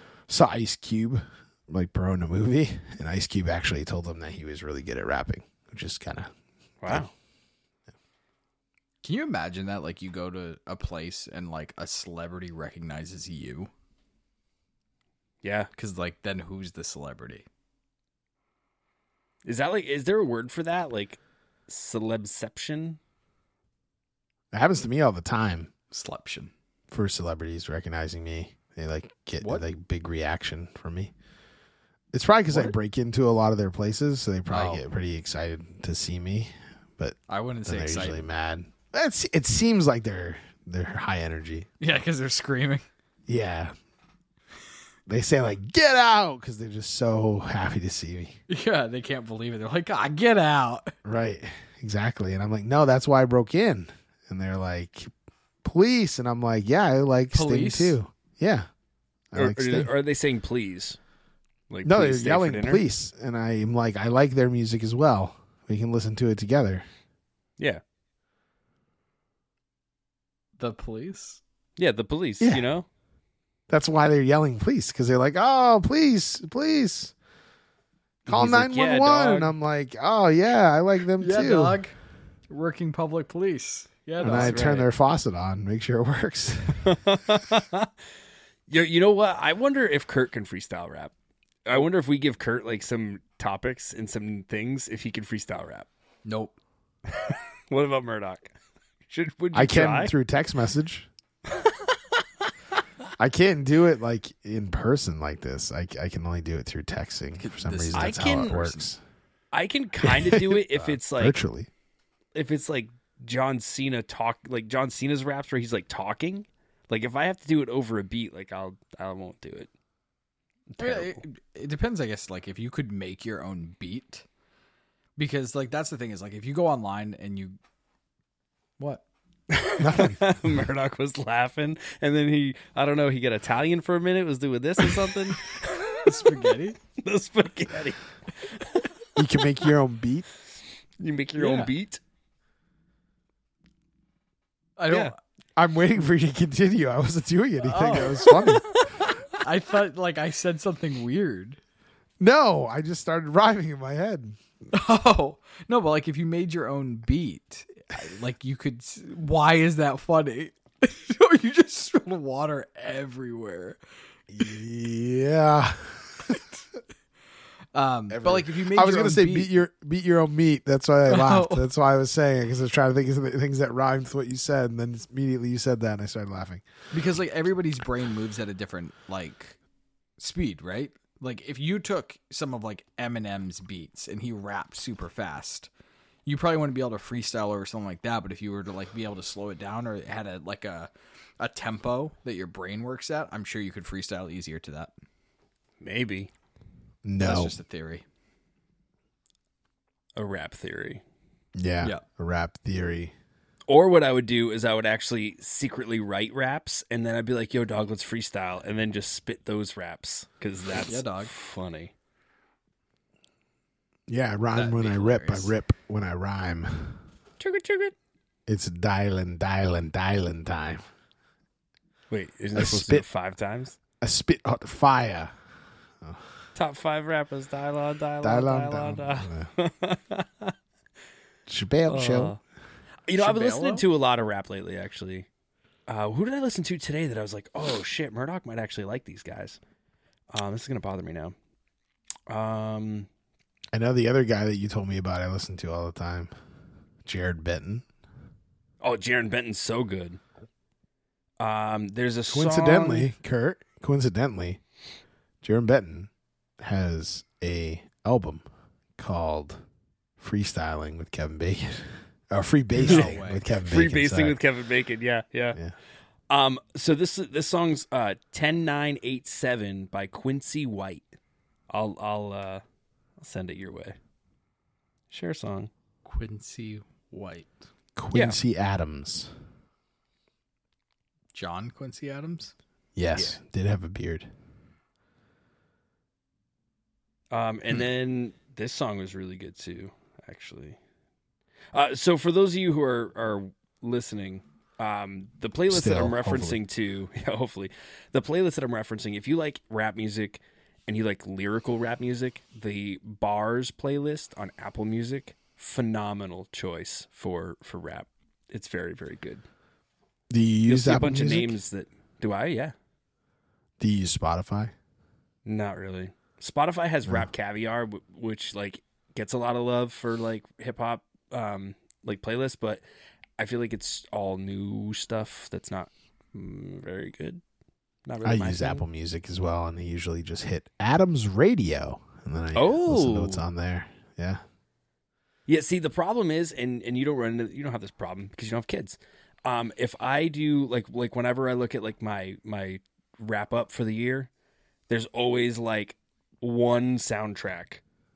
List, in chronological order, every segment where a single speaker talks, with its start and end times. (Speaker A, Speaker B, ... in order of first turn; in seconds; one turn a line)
Speaker A: 0.3-6.3
Speaker B: 6.8-7.1
Speaker C: 9.0-13.7
Speaker B: 15.4-15.7
Speaker C: 15.8-17.5
Speaker B: 19.4-23.0
Speaker A: 24.5-25.7
Speaker C: 25.9-26.5
Speaker A: 26.9-31.1
Speaker C: 29.4-29.7
Speaker A: 32.1-41.7
Speaker C: 34.5-34.8
Speaker C: 37.3-38.2
Speaker C: 41.8-42.9
Speaker A: 43.3-43.7
Speaker A: 45.1-48.4
Speaker C: 48.5-51.0
Speaker A: 51.0-55.1
Speaker A: 55.6-58.7
Speaker C: 57.3-58.0
Speaker A: 59.3-59.9
Speaker B: 59.4-61.0
Speaker B: 61.7-62.8
Speaker A: 61.9-66.8
Speaker C: 70.6-71.4
Speaker B: 71.8-72.9
Speaker A: 72.4-72.7
Speaker A: 73.7-77.1
Speaker A: 78.3-81.8
Speaker B: 78.3-79.5
Speaker C: 81.2-82.0
Speaker C: 82.5-84.9
Speaker A: 84.2-87.0
Speaker B: 84.2-84.8
Speaker B: 86.8-87.9
Speaker B: 88.7-91.1
Speaker B: 91.7-95.9
Speaker C: 96.3-96.5
Speaker B: 97.1-98.5
Speaker B: 99.1-100.1
Speaker A: 99.5-101.1
Speaker B: 101.5-102.0
Speaker A: 103.2-109.0
Speaker C: 107.4-108.9
Speaker B: 107.9-108.7
Speaker B: 109.5-111.4
Speaker A: 110.1-111.7
Speaker B: 112.3-119.7
Speaker B: 120.7-121.2
Speaker C: 120.8-124.2
Speaker C: 125.2-127.6
Speaker C: 128.8-129.0
Speaker B: 129.5-138.9
Speaker A: 129.8-130.3
Speaker C: 136.0-136.8
Speaker A: 139.2-140.3
Speaker B: 141.0-142.0
Speaker C: 141.4-141.7
Speaker C: 144.8-145.1
Speaker A: 145.6-149.1
Speaker C: 147.6-148.6
Speaker B: 148.3-149.1
Speaker C: 149.4-151.6
Speaker A: 152.2-154.4
Speaker C: 154.7-163.8
Speaker A: 164.3-166.4
Speaker C: 167.7-169.5
Speaker A: 168.1-176.6
Speaker C: 171.1-171.7
Speaker C: 176.9-179.6
Speaker C: 180.2-185.7
Speaker C: 186.3-194.9
Speaker B: 195.8-196.3
Speaker A: 197.1-197.6
Speaker C: 197.2-198.1
Speaker B: 200.2-201.0
Speaker A: 201.6-203.1
Speaker B: 203.7-211.9
Speaker C: 210.8-211.3
Speaker A: 214.1-217.0
Speaker C: 214.5-215.5
Speaker B: 217.4-217.9
Speaker A: 218.5-220.9
Speaker B: 222.1-223.8
Speaker A: 222.6-223.1
Speaker A: 224.0-225.3
Speaker A: 226.0-226.3
Speaker B: 226.6-230.6
Speaker A: 228.2-229.5
Speaker A: 231.5-232.3
Speaker B: 231.9-232.4
Speaker B: 233.1-235.3
Speaker C: 233.2-233.9
Speaker B: 235.9-239.6
Speaker B: 240.3-241.3
Speaker B: 242.3-243.1
Speaker A: 243.7-246.3
Speaker A: 247.1-247.9
Speaker B: 248.8-250.2
Speaker B: 251.4-253.1
Speaker A: 252.3-254.6
Speaker A: 255.4-258.4
Speaker A: 259.0-259.6
Speaker A: 260.2-264.4
Speaker C: 262.8-263.4
Speaker B: 262.9-265.6
Speaker B: 266.3-271.1
Speaker B: 271.7-272.6
Speaker B: 273.2-274.0
Speaker B: 275.1-275.7
Speaker C: 276.1-277.6
Speaker A: 278.0-279.3
Speaker C: 281.3-282.5
Speaker A: 282.9-284.3
Speaker B: 287.3-290.8
Speaker B: 291.7-309.4
Speaker A: 295.7-296.6
Speaker A: 310.3-311.6
Speaker B: 310.7-312.7
Speaker A: 313.8-314.7
Speaker B: 315.5-322.8
Speaker B: 323.4-327.4
Speaker B: 328.1-328.9
Speaker A: 328.2-334.4
Speaker B: 332.5-333.4
Speaker B: 335.5-344.3
Speaker B: 344.9-347.8